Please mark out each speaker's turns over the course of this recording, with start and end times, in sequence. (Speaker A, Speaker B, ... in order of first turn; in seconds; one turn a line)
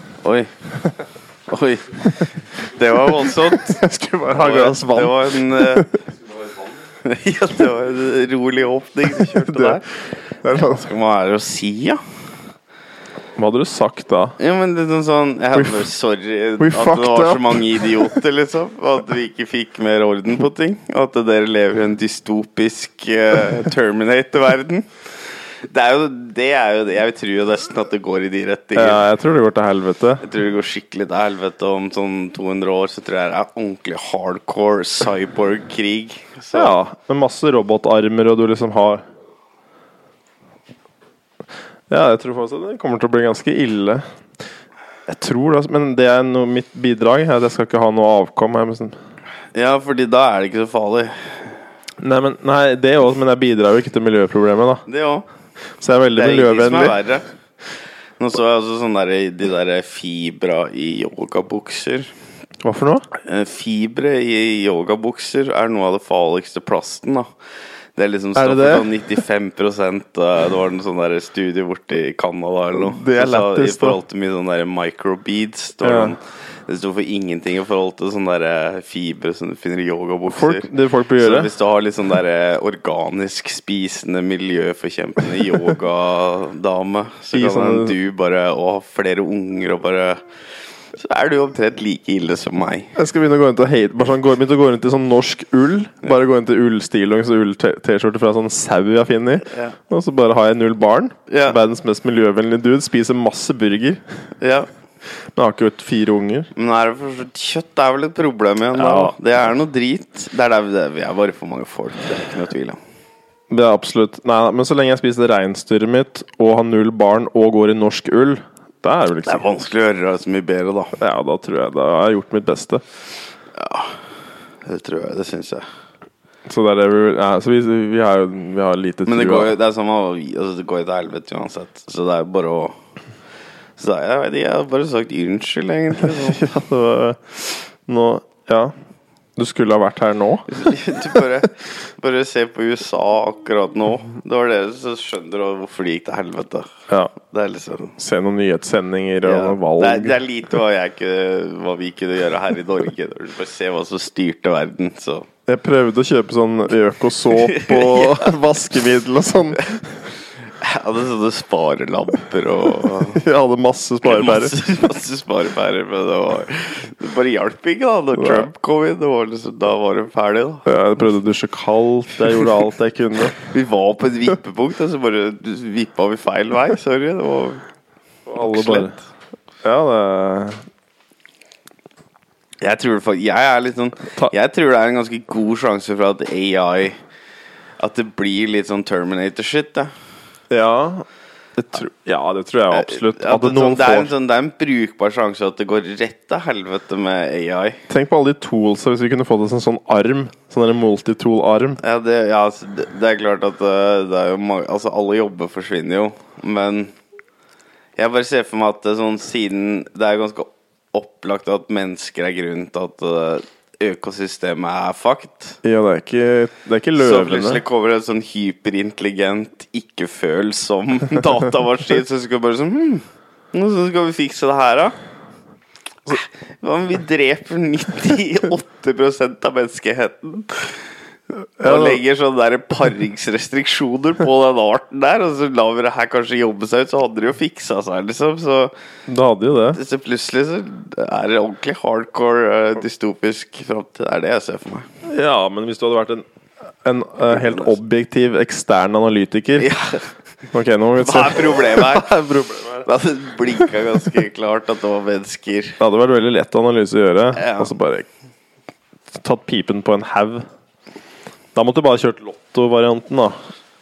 Speaker A: 0.2-0.5
Speaker A: 1.5-5.9
Speaker B: 3.5-5.9
Speaker A: 7.0-9.8
Speaker B: 9.3-9.8
Speaker B: 10.4-10.9
Speaker A: 10.6-12.0
Speaker B: 13.4-14.3
Speaker A: 14.4-24.9
Speaker B: 15.5-15.8
Speaker B: 16.6-18.2
Speaker A: 25.7-29.0
Speaker B: 28.7-30.2
Speaker A: 30.2-36.7
Speaker B: 36.5-39.0
Speaker B: 41.9-44.0
Speaker B: 45.1-48.9
Speaker A: 49.5-51.5
Speaker B: 52.0-54.8
Speaker A: 54.9-55.2
Speaker B: 55.8-57.0
Speaker A: 56.1-57.3
Speaker A: 58.2-62.1
Speaker B: 62.6-63.1
Speaker A: 63.2-67.2
Speaker A: 68.0-90.2
Speaker B: 68.3-68.9
Speaker B: 72.7-74.0
Speaker B: 75.8-76.1
Speaker B: 80.3-81.5
Speaker B: 87.3-87.9
Speaker A: 91.0-92.9
Speaker B: 93.0-104.0
Speaker A: 99.5-99.8
Speaker A: 101.3-101.6
Speaker A: 104.4-104.7
Speaker B: 105.3-106.5
Speaker A: 106.5-112.8
Speaker B: 108.7-109.2
Speaker B: 113.5-119.5
Speaker A: 119.2-121.0
Speaker B: 121.0-122.8
Speaker A: 123.5-124.0
Speaker A: 124.6-125.6
Speaker B: 126.5-129.5
Speaker A: 129.1-132.8
Speaker A: 133.8-136.5
Speaker B: 136.0-138.7
Speaker B: 139.4-140.5
Speaker A: 140.5-146.7
Speaker A: 147.2-147.9
Speaker B: 147.9-150.2
Speaker A: 149.2-155.3
Speaker B: 155.5-159.9
Speaker A: 157.3-158.3
Speaker A: 160.6-163.2
Speaker B: 163.0-164.6
Speaker A: 164.0-170.6
Speaker B: 168.2-168.5
Speaker B: 170.7-173.4
Speaker A: 173.5-177.6
Speaker B: 178.3-179.0
Speaker A: 178.4-178.9
Speaker B: 179.6-180.6
Speaker A: 182.6-186.9
Speaker A: 187.8-189.9
Speaker B: 190.5-191.0
Speaker B: 191.6-194.1
Speaker A: 192.7-197.8
Speaker B: 197.9-201.8
Speaker A: 201.8-206.9
Speaker A: 208.0-215.6
Speaker B: 215.6-217.6
Speaker A: 216.9-224.9
Speaker A: 226.1-230.8
Speaker B: 231.6-232.0
Speaker A: 231.6-238.7
Speaker B: 239.1-239.8
Speaker A: 239.7-244.9
Speaker B: 245.1-246.2
Speaker B: 246.8-249.7
Speaker A: 247.3-247.7
Speaker A: 249.6-250.0
Speaker B: 250.5-252.8
Speaker A: 251.0-255.8
Speaker B: 255.8-258.1
Speaker A: 257.3-257.7
Speaker B: 259.1-260.4
Speaker B: 261.5-263.3